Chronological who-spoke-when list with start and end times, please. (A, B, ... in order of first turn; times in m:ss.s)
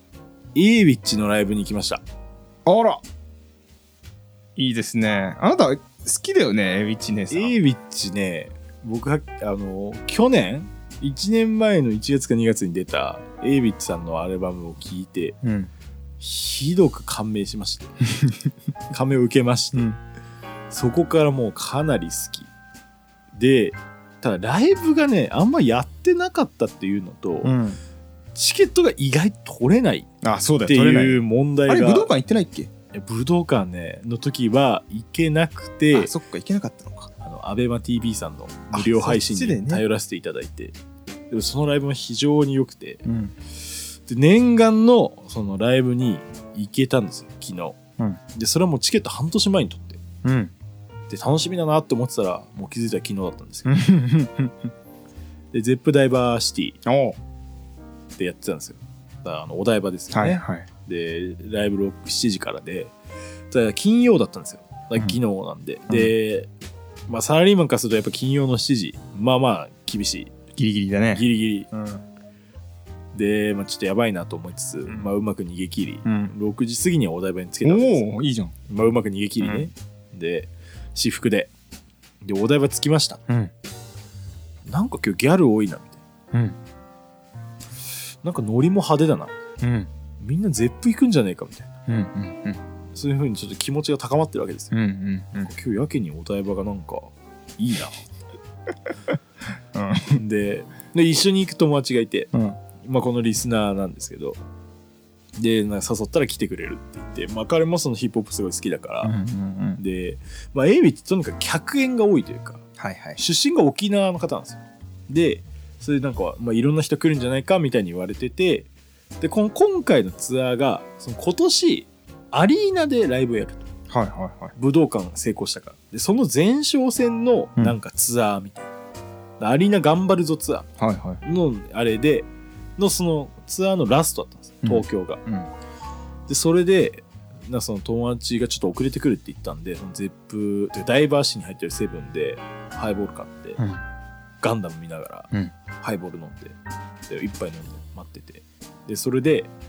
0:00.6-0:02.0 A
0:02.7-0:03.0 B
0:04.6-0:07.6 B
0:07.3-0:15.4 A
0:15.4-0:15.7 B
0:16.2-0:18.0 A
0:18.9-0:19.9 A
0:20.7-0:22.5 A
0:23.3-0:27.6 A
0:27.4-0:27.8 B
0:28.4-0:30.1 A
0:30.2-0:32.7 B
0:30.6-0:32.1 A
0:32.9-0:36.1 A
0:35.9-0:37.1 B
0:37.2-0:40.8 A
0:38.7-0:39.8 B
0:41.3-0:43.1 A
0:43.0-0:43.3 B
0:43.8-0:47.8 A
0:48.3-0:50.0 A
0:50.2-0:50.5 B
0:51.1-0:53.8 A
0:53.6-0:54.7 B
0:55.5-0:56.8 A
0:56.8-0:57.2 B
0:58.2-1:02.9 A
1:00.1-1:00.7 B
1:03.5-1:06.5 A
1:05.9-1:06.1 B
1:07.1-1:10.4 A
1:10.6-1:12.0 B
1:11.1-1:11.7 A
1:13.1-1:21.5 A
1:16.0-1:16.3 B
1:17.6-1:18.6 B
1:19.4-1:19.7 B
1:22.2-1:23.2 A
1:24.6-1:26.0 A
1:28.2-1:29.4 A
1:29.6-1:29.9 B
1:30.2-1:31.7 A
1:31.9-1:32.6 B
1:32.9-1:34.8 A
1:34.7-1:35.5 B
1:35.4-1:38.0 A
1:39.7-1:40.2 B
1:40.2-1:44.4 A
1:42.3-1:42.6 B
1:45.4-1:49.2 A
1:49.0-1:49.8 B
1:49.8-1:52.6 A
1:52.8-1:53.2 B
1:53.2-1:58.7 A
1:59.2-2:03.7 A
2:03.9-2:04.5 B
2:04.6-2:08.7 A
2:09.4-2:15.2 A
2:10.8-2:11.2 B
2:14.6-2:15.5 B
2:16.3-2:23.6 A
2:23.6-2:23.8 B
2:24.4-2:26.6 A
2:27.1-2:29.5 A